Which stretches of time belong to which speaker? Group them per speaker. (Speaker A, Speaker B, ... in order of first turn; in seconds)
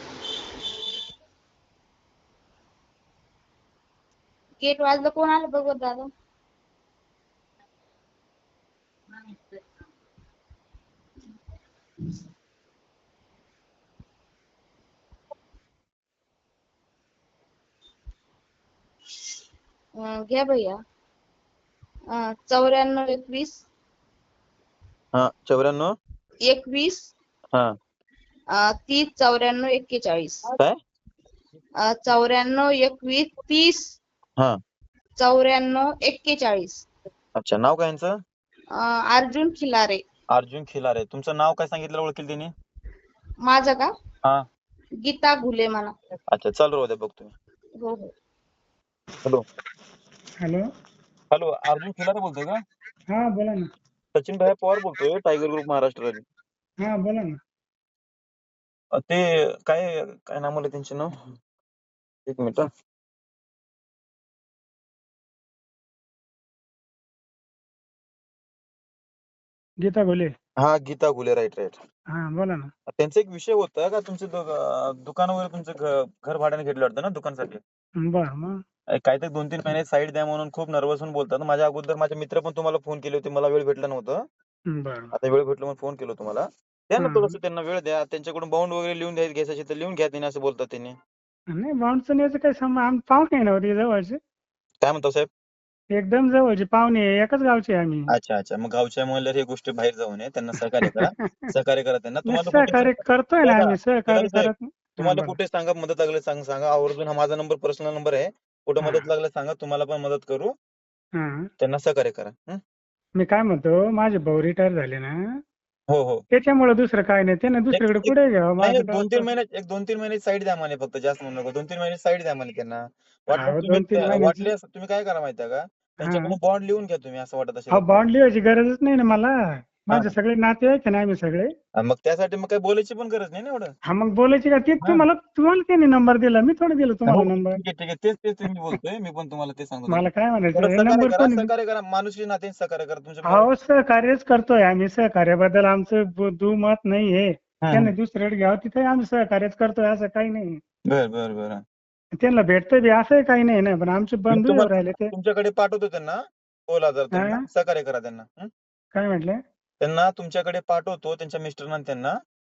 Speaker A: 4.6-6.1, 20.0-20.8, 22.1-23.6, 26.5-27.1, 28.6-30.5, 31.8-34.0, 35.2-36.9, 38.8-40.0, 43.5-43.9, 45.0-45.9, 47.8-48.1
Speaker B: 25.1-25.9, 37.4-38.2, 40.3-42.5, 46.3-47.3, 51.3-52.6, 54.1-56.2, 59.0-61.1, 62.3-62.7, 70.6-71.8, 73.0-77.6, 79.0-84.2, 85.2-91.0, 94.8-95.3, 98.1-110.5, 111.6-112.6, 115.9-116.2, 117.7-128.0, 131.8-133.7, 137.1-143.5, 147.6-147.9, 150.9-151.6, 154.3-158.5, 159.8-162.2
Speaker C: 53.1-53.7, 56.9-57.4, 69.8-70.3, 72.2-72.7, 78.0-78.5, 84.8-85.1, 87.0-87.4, 91.5-94.2, 96.0-98.0, 102.3-105.4, 113.2-115.1, 116.3-119.2, 123.3-124.5, 126.0-126.3, 127.8-131.5, 133.9-137.6, 139.9-141.5, 143.3-150.6, 152.2-155.1, 157.1-157.4, 158.9-159.4